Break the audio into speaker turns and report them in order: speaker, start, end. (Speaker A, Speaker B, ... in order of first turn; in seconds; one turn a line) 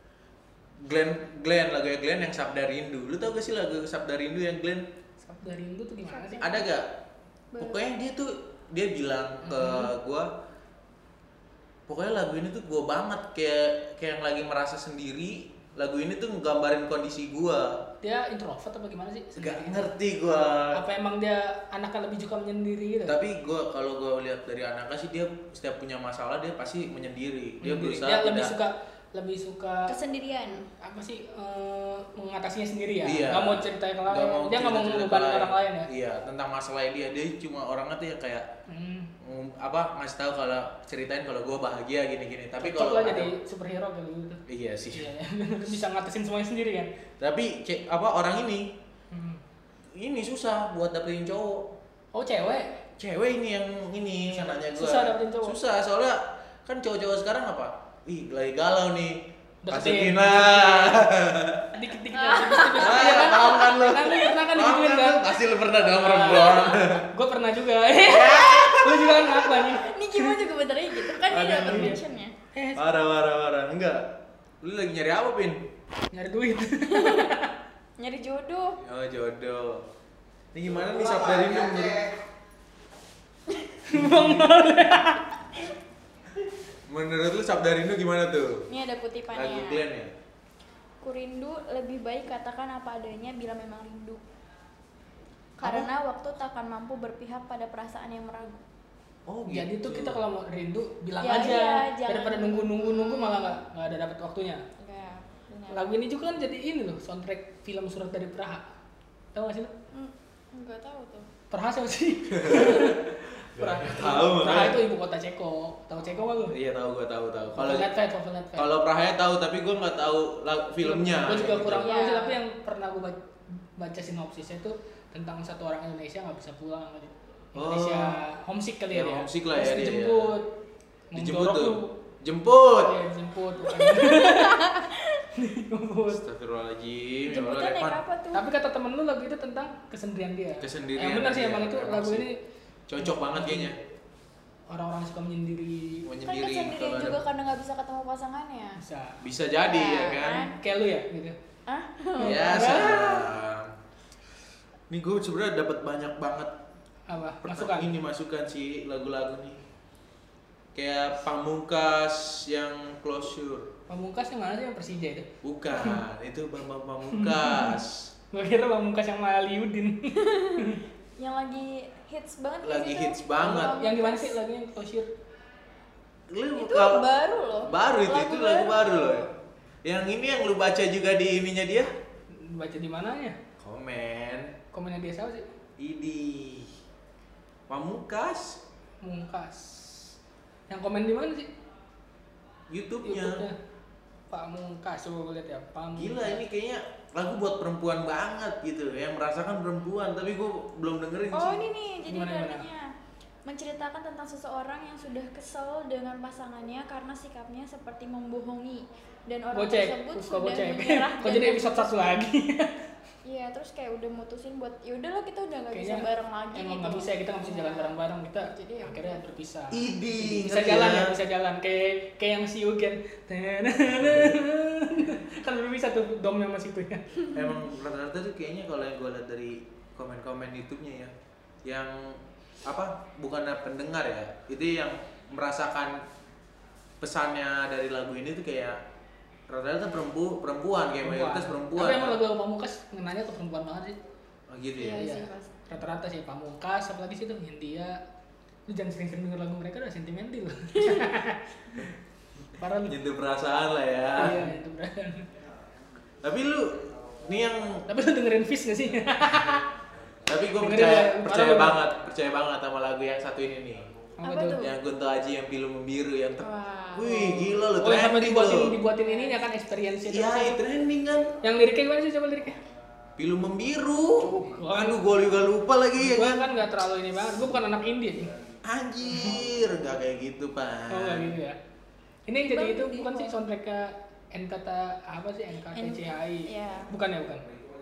Speaker A: 0.8-4.9
Speaker B: 5.2-6.5
Speaker C: 6.1-6.6
Speaker A: 6.4-6.9
Speaker C: 7.5-7.8
Speaker A: 7.6-10.3
Speaker B: 9.4-9.9
Speaker A: 11.9-17.8
Speaker B: 18.0-19.9
Speaker A: 19.4-20.8
Speaker B: 20.7-23.2
Speaker A: 23.1-28.5
Speaker B: 27.6-29.9
Speaker C: 29.9-30.6
Speaker B: 30.8-35.9
Speaker A: 33.0-38.5
Speaker B: 38.7-39.1
Speaker A: 39.2-43.3
Speaker B: 42.6-44.4
Speaker A: 44.5-45.1
Speaker B: 44.9-46.9
Speaker A: 47.2-48.8
Speaker B: 49.1-49.4
Speaker A: 49.9-51.8
Speaker B: 52.1-52.8
Speaker A: 53.0-61.7
Speaker B: 54.3-55.6
Speaker B: 59.6-61.0
Speaker B: 61.7-65.2
Speaker C: 62.1-64.2
Speaker A: 62.7-67.0
Speaker B: 65.7-70.4
Speaker A: 68.0-69.0
Speaker C: 68.2-72.3
Speaker A: 71.2-72.0
Speaker B: 71.7-72.0
Speaker B: 72.5-72.9
Speaker A: 72.8-75.7
Speaker B: 76.1-77.5
Speaker C: 76.9-77.3
Speaker C: 78.0-78.8
Speaker A: 78.8-79.9
Speaker A: 80.5-82.1
Speaker B: 83.9-85.3
Speaker A: 86.9-88.7
Speaker C: 88.7-89.8
Speaker A: 89.3-90.1
Speaker C: 91.0-94.2
Speaker C: 95.6-98.6
Speaker A: 95.6-95.9
Speaker A: 99.3-100.2
Speaker B: 99.5-104.6
Speaker C: 101.2-103.6
Speaker C: 104.8-105.8
Speaker B: 105.7-108.6
Speaker B: 109.3-109.7
Speaker C: 109.9-111.3
Speaker B: 111.5-116.5
Speaker A: 112.3-114.8
Speaker A: 116.5-117.9
Speaker B: 117.5-118.7
Speaker A: 118.5-121.9
Speaker B: 120.8-123.2
Speaker C: 121.8-122.4
Speaker B: 123.8-130.5
Speaker A: 127.5-128.2
Speaker A: 128.9-130.4
Speaker B: 131.1-131.9
Speaker A: 131.2-133.0
Speaker B: 132.8-134.8
Speaker C: 133.6-135.2
Speaker B: 135.3-136.2
Speaker A: 136.1-138.0
Speaker C: 137.3-138.4
Speaker B: 138.3-142.4
Speaker A: 140.6-142.2
Speaker A: 142.9-143.8
Speaker B: 143.0-143.7
Speaker B: 144.7-146.1
Speaker A: 146.0-147.2
Speaker C: 146.2-148.8
Speaker B: 148.8-149.2
Speaker A: 149.2-150.5
Speaker C: 149.6-150.6
Speaker B: 150.6-151.3
Speaker C: 151.7-153.2
Speaker B: 152.2-152.9
Speaker A: 152.2-153.7
Speaker A: 154.9-156.6
Speaker B: 157.1-157.9
Speaker A: 157.4-159.6
Speaker A: 160.7-163.7
Speaker B: 163.9-166.0
Speaker A: 165.4-168.1
Speaker B: 167.1-167.8
Speaker B: 168.3-170.8
Speaker C: 170.2-170.6
Speaker C: 171.2-174.3
Speaker A: 172.6-173.8
Speaker B: 173.8-175.1
Speaker A: 176.3-177.1
Speaker C: 176.6-179.3
Speaker A: 177.7-179.3
Speaker A: 179.8-181.9
Speaker B: 182.4-183.4
Speaker A: 183.6-184.5
Speaker B: 184.7-185.5
Speaker A: 185.8-186.7
Speaker A: 187.7-188.6
Speaker B: 189.0-190.1
Speaker B: 190.7-191.5
Speaker A: 192.7-193.5
Speaker B: 193.0-193.5
Speaker B: 194.3-196.4
Speaker A: 196.0-201.6
Speaker C: 201.3-202.9
Speaker B: 202.1-202.7
Speaker C: 203.4-212.2
Speaker B: 209.5-212.7
Speaker C: 213.2-219.2
Speaker B: 215.7-227.2
Speaker A: 219.7-221.2
Speaker A: 224.0-224.3
Speaker A: 227.3-231.1
Speaker A: 231.6-236.0
Speaker A: 237.0-238.8
Speaker A: 239.5-242.2
Speaker B: 241.0-244.0
Speaker A: 244.5-245.1
Speaker C: 244.8-245.5
Speaker B: 245.0-248.0
Speaker B: 248.7-251.4
Speaker C: 250.8-251.1
Speaker B: 252.6-252.9
Speaker A: 252.8-254.5
Speaker B: 254.2-255.3
Speaker A: 256.2-257.9
Speaker B: 257.9-259.6
Speaker A: 260.2-263.9
Speaker B: 260.6-261.8
Speaker B: 264.2-264.6
Speaker C: 264.2-264.7
Speaker A: 264.6-268.8
Speaker C: 266.4-267.5
Speaker B: 267.8-270.6
Speaker C: 268.9-269.5
Speaker A: 270.0-271.4
Speaker B: 271.4-272.6
Speaker A: 273.1-276.5
Speaker B: 274.2-275.0
Speaker B: 275.9-278.3
Speaker A: 278.6-281.4
Speaker B: 280.9-281.6
Speaker B: 282.3-287.4
Speaker C: 282.4-283.4
Speaker C: 285.7-286.9